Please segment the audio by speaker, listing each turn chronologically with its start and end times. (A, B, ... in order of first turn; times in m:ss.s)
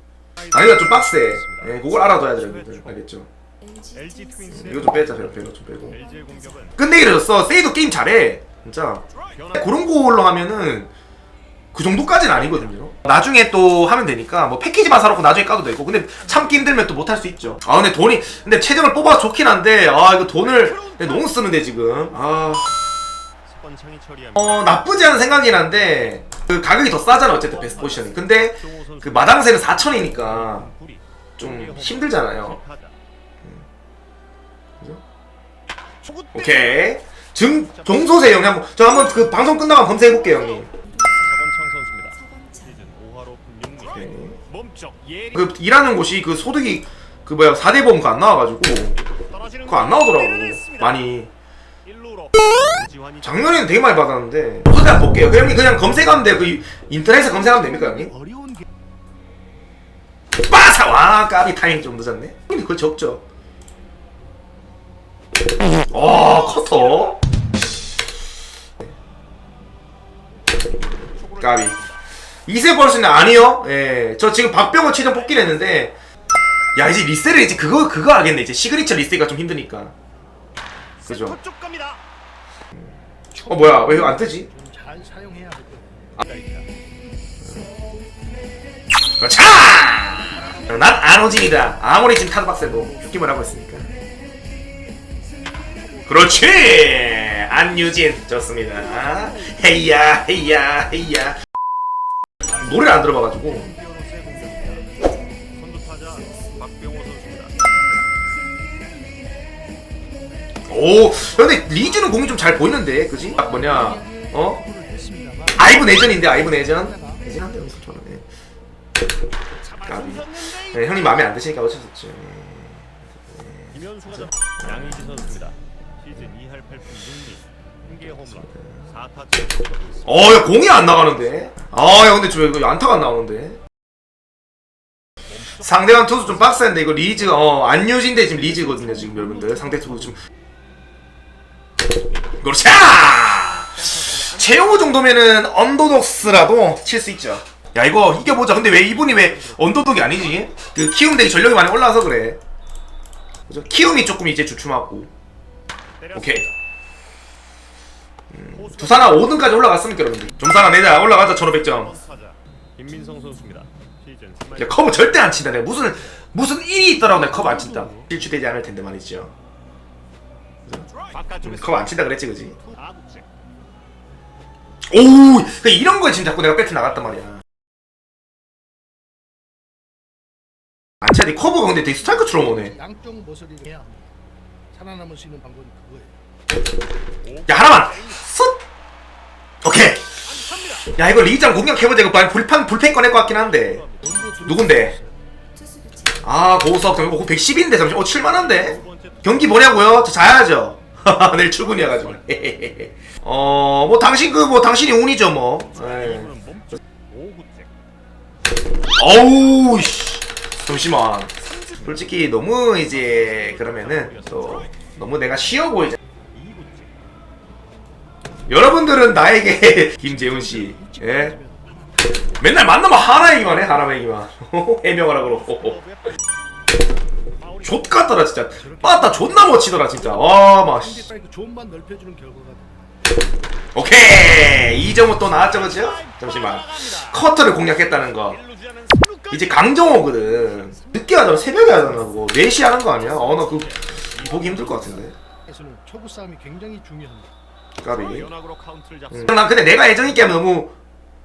0:00.4-0:02.9 A
0:00.5-0:03.3 B
0:03.8-0:04.8 A
0:04.5-0:06.0 B
0:05.9-0:06.8 A
0:06.8-0:10.9 B
0:09.3-0:09.7 A
0:11.7-0:22.8 B
0:20.7-0:21.1 A
0:23.5-0:24.8 A
0:24.4-0:30.7 B
0:27.4-0:33.0 A
0:31.4-0:32.6 B
0:36.0-0:36.9 A
0:36.3-0:40.7 B
0:37.7-0:38.2 A
0:41.0-0:45.4 A
0:43.9-0:44.4 B
0:45.3-0:49.0 B
0:49.3-0:50.9 A
0:49.6-0:51.3 B
0:51.8-0:53.9 A
0:53.2-0:58.1 B
0:58.0-0:58.6 C
1:00.4-1:03.2 B
1:05.9-1:07.2 B
1:11.2-1:11.9 A
1:11.4-1:11.8 B
1:12.5-1:15.9 B
1:16.8-1:19.9 B
1:21.1-1:21.4 B
1:21.3-1:22.0 A
1:22.7-1:24.5 B
1:24.4-1:26.7 C
1:29.2-1:33.8 B
1:36.0-1:41.4 B
1:42.5-1:43.7 B
1:43.7-1:44.6 C
1:43.8-1:44.9 A
1:45.5-1:47.6 A
1:50.7-1:54.6 B
1:53.6-1:57.2 C
1:55.5-1:58.2 B
1:59.6-2:00.7 A
1:59.8-2:05.0 B
2:03.7-2:10.2 A
2:08.5-2:08.8 B
2:10.0-2:13.6 B
2:15.3-2:16.8 A
2:15.6-2:20.2 B
2:22.4-2:32.4 B
2:23.8-2:24.7 A
2:28.8-2:29.6 A
2:33.5-2:35.1 B
2:36.0-2:36.5 A
2:36.1-2:36.5 B
2:38.3-2:41.9 B
2:38.5-2:39.5 A
2:41.4-2:45.2 A
2:44.6-2:49.3 B
2:51.0-2:51.9 A
2:51.4-2:52.6 B
2:52.6-2:53.3 A
2:54.9-2:57.4 B
3:01.0-3:02.7 B
3:02.3-3:04.1 C
3:04.7-3:06.2 C
3:07.5-3:08.6 B
3:09.6-3:10.1 B
3:10.7-3:13.8 B
3:13.8-3:14.1 A
3:14.0-3:15.1 C
3:14.4-3:15.0 B
3:16.2-3:26.3 B
3:18.3-3:19.8 A
3:25.9-3:26.2 A
3:26.3-3:27.5 C
3:27.4-3:27.6 A
3:29.0-3:36.0 B
3:32.8-3:34.6 A
3:36.4-3:36.9 C
3:38.5-3:41.4 B
3:40.2-3:41.8 C
3:42.4-3:45.8 B
3:47.6-3:51.1 B
3:48.6-3:49.7 C
3:50.8-3:52.8 C
3:53.7-3:58.4 B
3:55.4-3:57.1 A
3:58.2-3:59.6 A
3:59.3-4:05.1 B
4:00.5-4:00.9 C
4:03.0-4:04.8 A
4:05.5-4:07.3 C
4:07.8-4:08.3 B
4:07.9-4:09.8 A
4:09.1-4:10.7 B